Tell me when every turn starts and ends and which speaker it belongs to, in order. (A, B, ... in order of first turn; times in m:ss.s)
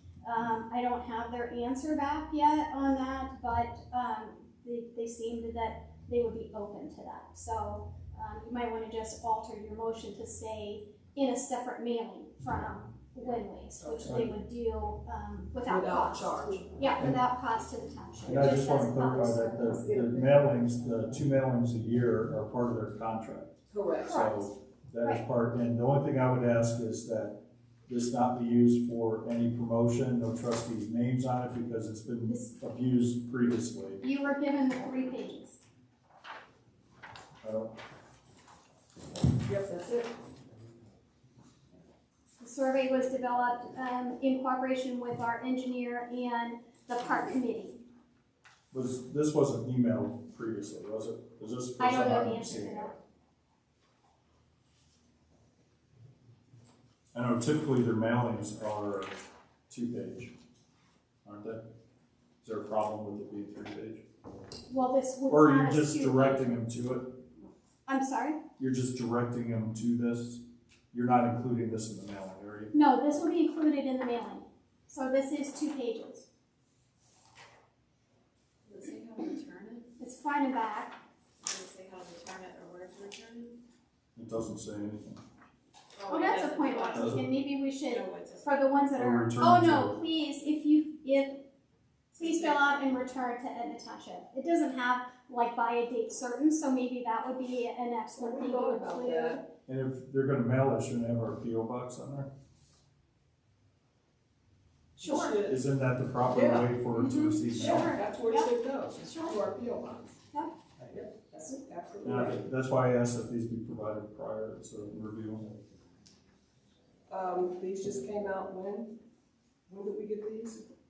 0:00.2-0:20.0 A
0:13.2-0:14.2 B
0:14.0-0:14.3 C
0:15.6-0:16.9 B
0:18.2-0:34.0 C
0:23.7-0:24.3 B
0:24.0-0:25.2 A
0:32.3-0:32.5 A
0:34.0-0:35.6 A
0:37.4-0:37.7 C
0:39.4-0:40.1 B
0:42.4-0:47.8 A
0:48.7-0:52.9 C
0:51.8-0:53.0 A
0:57.1-0:59.1 C
0:59.7-1:00.3 C
1:01.2-1:01.6 C
1:02.4-1:04.0 C
1:04.7-1:06.6 A
1:05.3-1:07.1 C
1:07.9-1:08.4 A
1:08.6-1:12.7 C
1:12.7-1:16.3 A
1:18.7-1:19.9 D
1:20.0-1:21.0 A
1:21.4-1:23.6 D
1:24.2-1:25.2 C
1:26.0-1:27.1 D
1:26.1-1:31.4 A
1:26.9-1:27.2 C
1:27.9-1:28.5 D
1:29.0-1:30.0 C
1:32.1-1:39.4 A
1:38.2-1:39.4 B
1:39.7-1:42.3 C
1:45.0-1:45.4 A
1:45.0-1:45.6 B
1:45.4-1:48.0 C
1:46.3-1:50.2 B
1:47.5-1:48.5 A
1:49.0-1:49.4 A
1:50.8-1:52.5 B
1:52.0-1:55.5 C
1:57.1-1:59.0 B
1:59.7-2:00.7 B